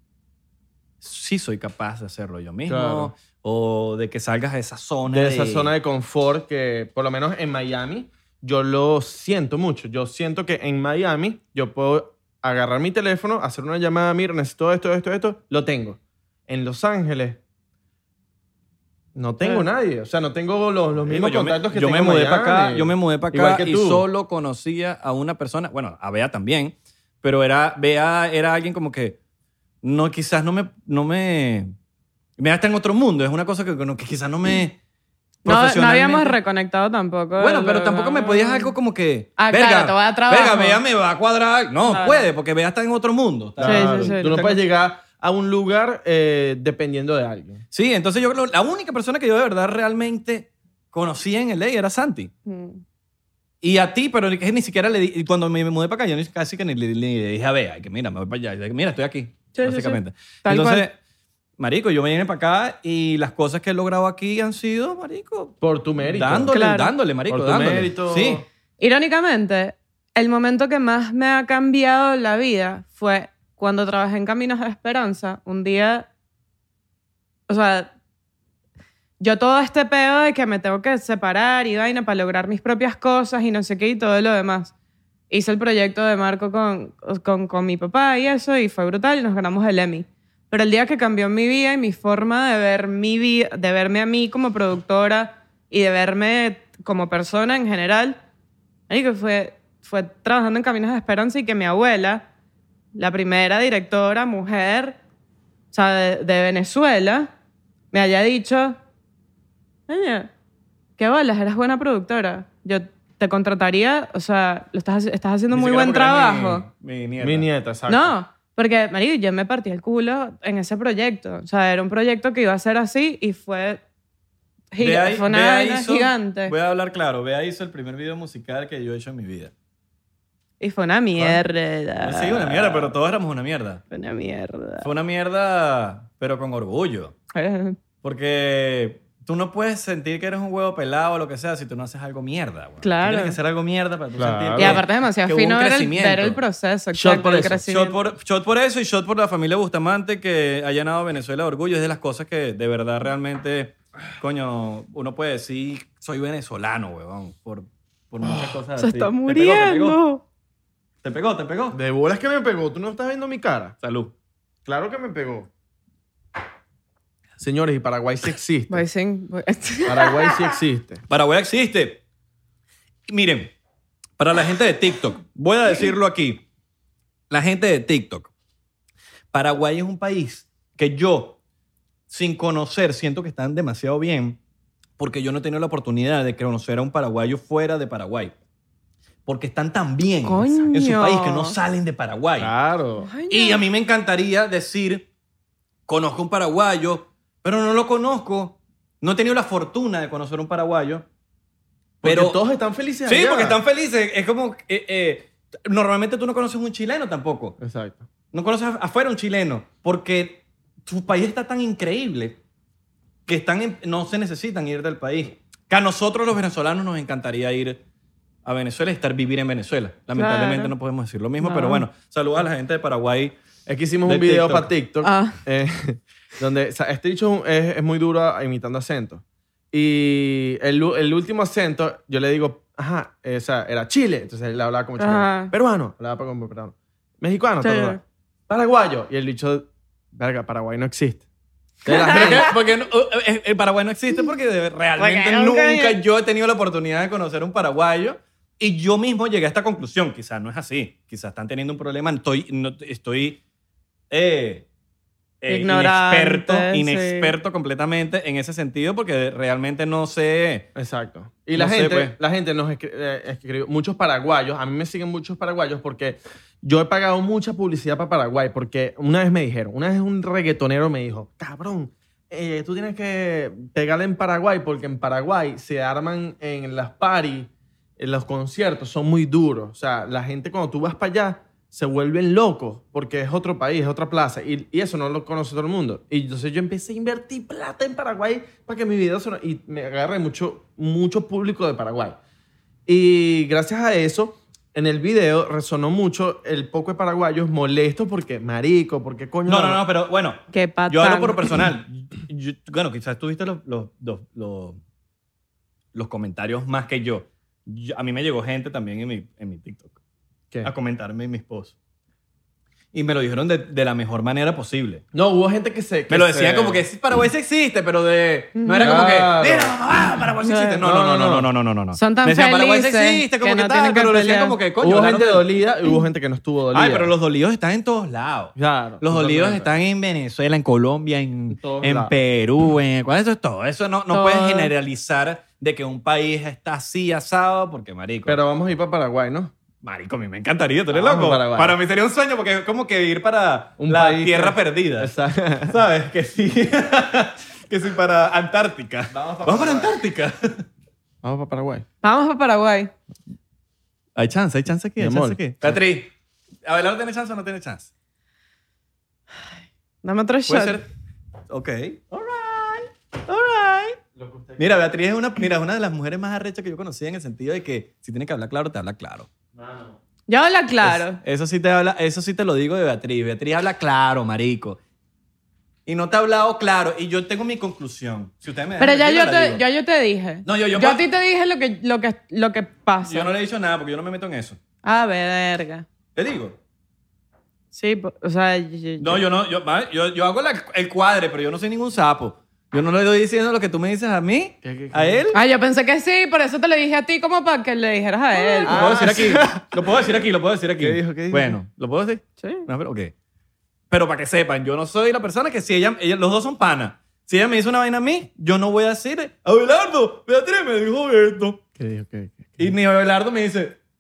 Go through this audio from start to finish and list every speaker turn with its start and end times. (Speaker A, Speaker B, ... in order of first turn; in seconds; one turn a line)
Speaker A: 1.0-5.7
Speaker B: 2.7-3.1
Speaker B: 5.1-17.4
Speaker B: 19.1-24.1
Speaker A: 21.1-29.2
Speaker A: 29.8-31.7
Speaker A: 32.4-34.8
Speaker A: 35.4-36.4
Speaker C: 35.5-38.7
Speaker A: 37.4-44.6
Speaker C: 39.4-40.8
Speaker C: 41.9-42.3
Speaker B: 43.6-47.6
Speaker C: 43.6-44.3
Speaker A: 47.7-52.3
Speaker C: 52.5-52.8
Speaker A: 53.6-61.0
Speaker C: 59.5-60.9
Speaker A: 61.6-68.5
Speaker B: 65.6-66.5
Speaker C: 66.5-66.9
Speaker B: 67.3-68.5
Speaker C: 68.8-76.1
Speaker C: 77.5-77.9
Speaker C: 79.2-84.7
Speaker C: 85.3-98.2
Speaker C: 98.9-102.2
Speaker C: 103.0-105.0
Speaker C: 105.7-107.3
Speaker C: 107.9-108.8
Speaker C: 109.9-110.3
Speaker C: 111.0-116.7
Speaker A: 115.5-117.5
Speaker B: 117.2-118.2
Speaker C: 117.9-123.8
Speaker C: 124.7-126.5
Speaker A: 124.8-129.5
Speaker C: 130.6-132.9
Speaker A: 132.0-133.8
Speaker C: 133.9-134.9
Speaker A: 134.8-137.2
Speaker C: 137.3-137.8
Speaker A: 138.0-146.4
Speaker C: 142.8-143.4
Speaker B: 144.2-144.8
Speaker C: 144.6-148.0
Speaker B: 146.9-147.6
Speaker A: 147.7-160.0
Speaker B: 158.2-158.6
Speaker C: 158.8-160.2
Speaker A: 161.0-161.8
Speaker B: 161.7-163.8
Speaker A: 163.8-164.1
Speaker B: 164.7-165.5
Speaker B: 167.4-168.8
Speaker C: 168.7-170.5
Speaker B: 169.8-171.0
Speaker A: 171.1-172.0
Speaker A: 173.1-173.5
Speaker A: 174.2-176.4
Speaker A: 177.3-178.3
Speaker A: 179.3-181.4
Speaker A: 182.1-184.4
Speaker A: 185.0-188.3
Speaker A: 189.3-192.5
Speaker C: 190.2-191.6
Speaker B: 192.4-193.1
Speaker C: 193.0-193.6
Speaker A: 193.3-195.1
Speaker A: 195.9-201.1
Speaker A: 202.0-202.4
Speaker B: 202.0-203.6
Speaker A: 203.1-207.6
Speaker B: 207.6-208.1
Speaker A: 208.3-212.4
Speaker A: 213.3-217.8
Speaker A: 218.4-223.4
Speaker C: 220.2-220.7
Speaker C: 221.4-221.9
Speaker B: 223.7-241.2
Speaker A: 224.0-224.7
Speaker C: 225.0-225.4
Speaker C: 235.0-235.5
Speaker C: 237.6-238.0
Speaker B: 241.8-242.6
Speaker C: 241.9-242.5
Speaker A: 242.0-253.4
Speaker C: 245.0-246.0
Speaker A: 254.1-254.7
Speaker A: 255.4-260.7
Speaker C: 255.5-257.3
Speaker B: 260.8-292.2
Speaker A: 261.6-262.2
Speaker B: 292.9-299.8
Speaker A: 299.5-304.8
Speaker C: 300.5-301.4
Speaker A: 305.9-310.0
Speaker A: 310.6-311.8
Speaker A: 312.9-315.0
Speaker B: 315.1-316.9
Speaker A: 316.1-325.5
Speaker C: 318.6-318.9
Speaker B: 318.8-319.8
Speaker C: 320.5-320.8
Speaker B: 320.8-321.5
Speaker C: 322.0-324.6
Speaker B: 324.8-327.1
Speaker A: 326.7-338.4
Speaker B: 328.6-329.7
Speaker B: 331.5-332.1
Speaker C: 334.1-334.7
Speaker B: 338.3-339.5
Speaker A: 339.8-345.1
Speaker B: 340.9-341.8
Speaker B: 343.8-345.8
Speaker A: 345.6-350.6
Speaker B: 349.1-350.0
Speaker B: 351.2-351.9
Speaker C: 352.0-352.9
Speaker A: 354.2-356.1
Speaker B: 355.0-355.4
Speaker A: 356.6-357.9
Speaker C: 360.0-360.8
Speaker A: 360.5-360.9
Speaker A: 361.5-364.0
Speaker B: 364.1-364.9
Speaker A: 364.6-369.3
Speaker B: 369.5-370.0
Speaker C: 370.3-371.2
Speaker A: 370.8-374.8
Speaker A: 375.9-379.6
Speaker C: 378.8-383.3
Speaker A: 380.5-381.0
Speaker A: 383.1-384.6
Speaker C: 384.8-385.9
Speaker A: 386.2-386.6
Speaker C: 387.7-389.2
Speaker A: 389.0-395.4
Speaker B: 394.6-395.3
Speaker C: 395.3-398.8
Speaker A: 398.5-403.1
Speaker B: 398.6-400.0
Speaker B: 400.8-401.6
Speaker C: 402.4-402.7
Speaker A: 403.9-411.6
Speaker B: 411.8-412.8
Speaker A: 412.6-413.8